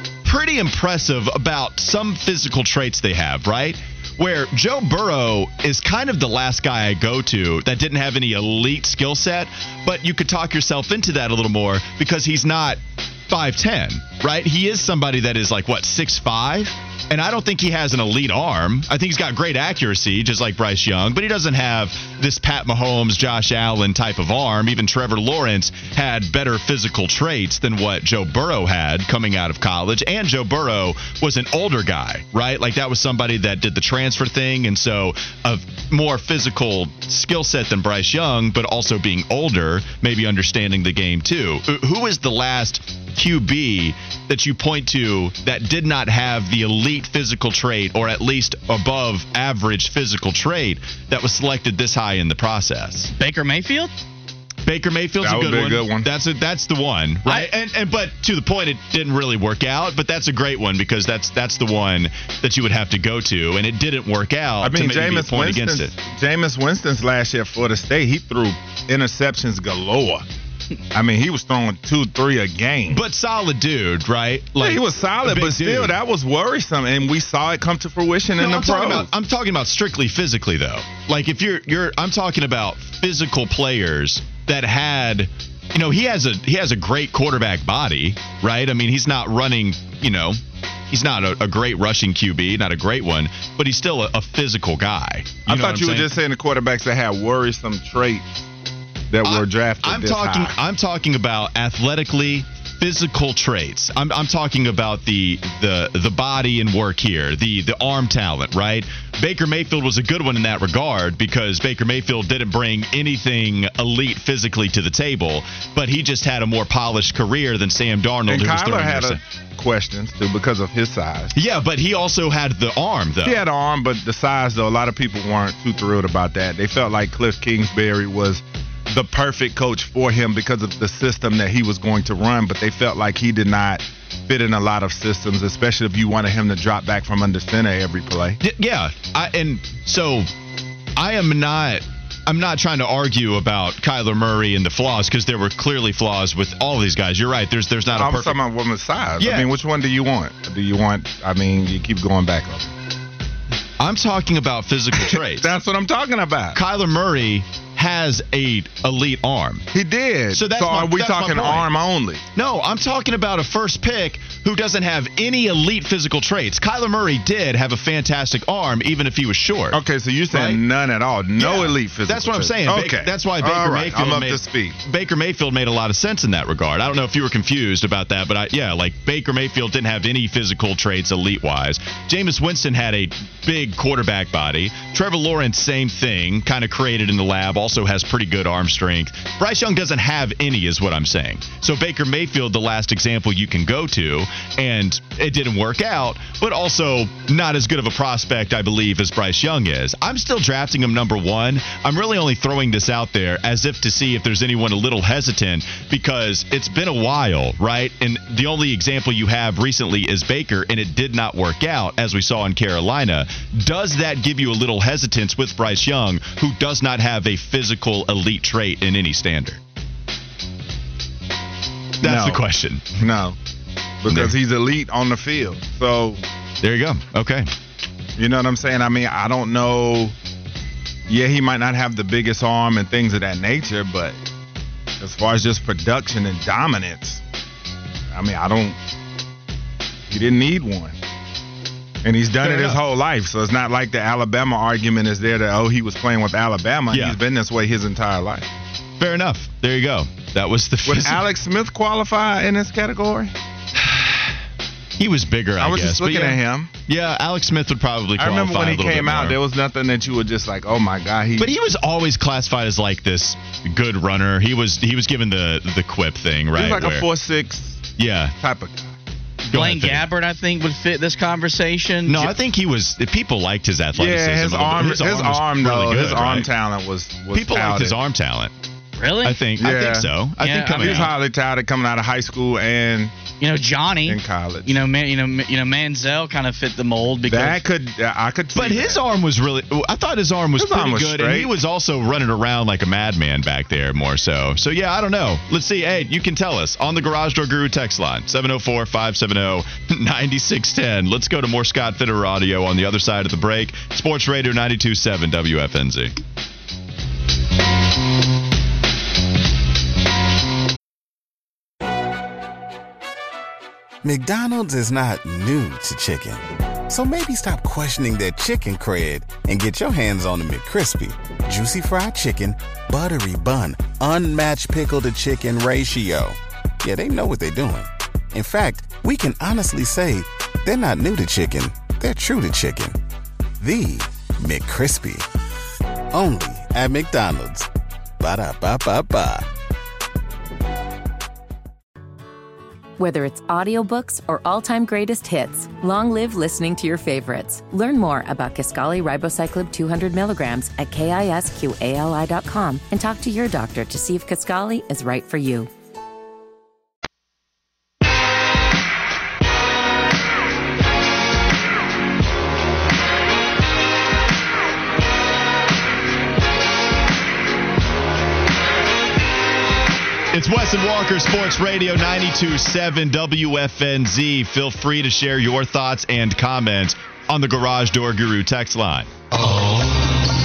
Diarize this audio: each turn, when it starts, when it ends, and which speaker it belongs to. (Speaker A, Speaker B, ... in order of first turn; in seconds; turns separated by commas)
Speaker A: 0.2-53.1, Speaker B: 53.2-53.9, Speaker A: 54.6-65.9, Speaker C: 55.2-56.1, Speaker C: 64.6-70.2, Speaker C: 70.9-73.0, Speaker A: 72.9-76.0, Speaker C: 74.6-79.1, Speaker A: 78.4-90.4, Speaker A: 90.9-96.1, Speaker C: 95.5-98.3, Speaker C: 99.1-100.5, Speaker A: 99.2-119.2, Speaker C: 118.3-121.3, Speaker A: 121.3-123.4, Speaker C: 123.2-138.4, Speaker A: 138.4-140.3, Speaker A: 141.0-148.4, Speaker C: 147.9-152.7, Speaker A: 149.2-149.5, Speaker A: 153.8-155.5, Speaker C: 155.1-156.6, Speaker A: 156.5-159.7, Speaker C: 159.7-162.2, Speaker A: 160.3-161.7, Speaker A: 162.4-169.8, Speaker C: 169.7-174.8, Speaker A: 170.3-170.6, Speaker A: 171.4-219.6, Speaker C: 222.0-222.4, Speaker A: 222.0-223.0, Speaker C: 223.0-223.4, Speaker C: 224.0-226.2, Speaker A: 224.1-224.3, Speaker A: 226.6-227.5, Speaker C: 228.2-230.2, Speaker C: 231.1-234.2, Speaker C: 235.0-237.2, Speaker C: 238.1-238.8, Speaker C: 240.1-241.0, Speaker C: 242.0-248.5, Speaker A: 242.4-242.8, Speaker A: 246.9-247.2, Speaker A: 249.0-251.2, Speaker C: 250.9-253.3, Speaker A: 253.8-254.3, Speaker A: 255.0-259.4, Speaker C: 255.6-256.7, Speaker C: 258.2-261.5, Speaker A: 261.4-267.1, Speaker C: 266.5-268.9, Speaker A: 268.0-268.3, Speaker B: 269.5-272.3, Speaker A: 269.5-270.1, Speaker A: 272.1-276.5, Speaker C: 274.0-278.0, Speaker A: 277.3-278.5, Speaker B: 279.0-279.4, Speaker A: 279.2-281.2, Speaker C: 279.6-280.1, Speaker B: 280.4-281.1, Speaker C: 280.8-283.1, Speaker B: 283.4-287.6, Speaker C: 284.1-284.8, Speaker C: 287.2-289.0, Speaker A: 288.6-306.1, Speaker C: 290.6-291.5, Speaker D: 314.0-333.0, Speaker D: 333.6-335.2, Speaker D: 336.1-337.7, Speaker D: 338.2-339.5, Speaker E: 343.0-355.7, Speaker A: 370.3-379.1